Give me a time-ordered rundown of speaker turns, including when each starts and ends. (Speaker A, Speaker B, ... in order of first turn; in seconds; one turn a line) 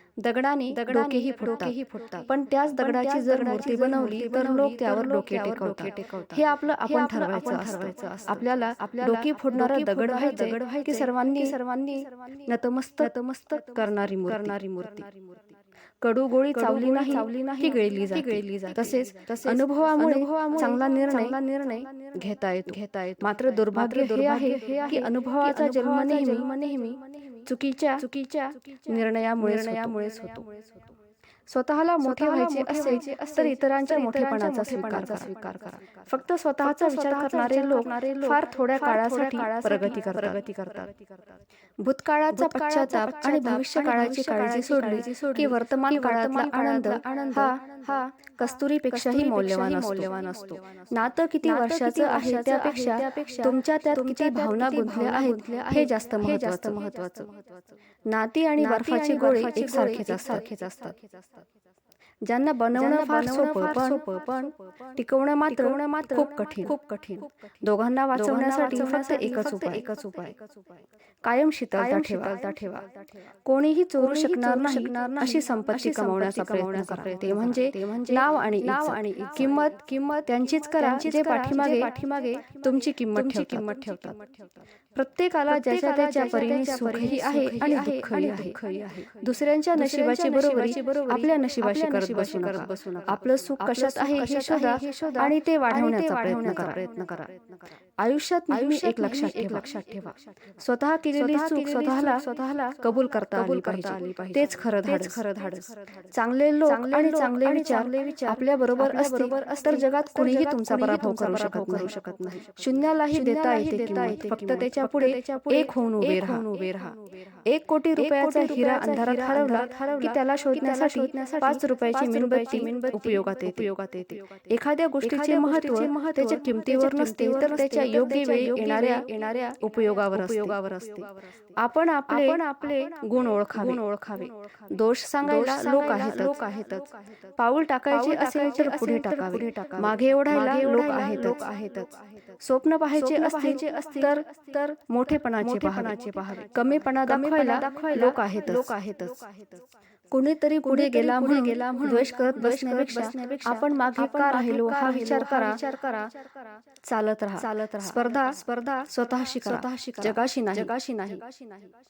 Speaker A: 0.2-15.0
Speaker B: 0.7-15.5
Speaker A: 16.0-30.5
Speaker B: 16.1-30.9
Speaker A: 31.5-40.8
Speaker B: 31.8-41.4
Speaker A: 41.8-57.3
Speaker B: 42.3-57.7
Speaker A: 58.1-61.0
Speaker B: 58.5-61.3
Speaker A: 62.2-70.3
Speaker B: 62.7-67.3
Speaker B: 68.1-70.7
Speaker A: 71.2-72.9
Speaker B: 71.6-73.2
Speaker A: 73.4-84.2
Speaker B: 73.8-97.6
Speaker A: 85.0-97.3
Speaker A: 98.0-116.9
Speaker B: 98.5-100.2
Speaker B: 100.8-131.3
Speaker A: 117.5-123.7
Speaker A: 124.2-141.7
Speaker B: 132.0-149.6
Speaker A: 142.4-149.3
Speaker A: 150.1-156.1
Speaker B: 150.5-156.4
Speaker A: 156.8-161.2
Speaker B: 157.3-161.7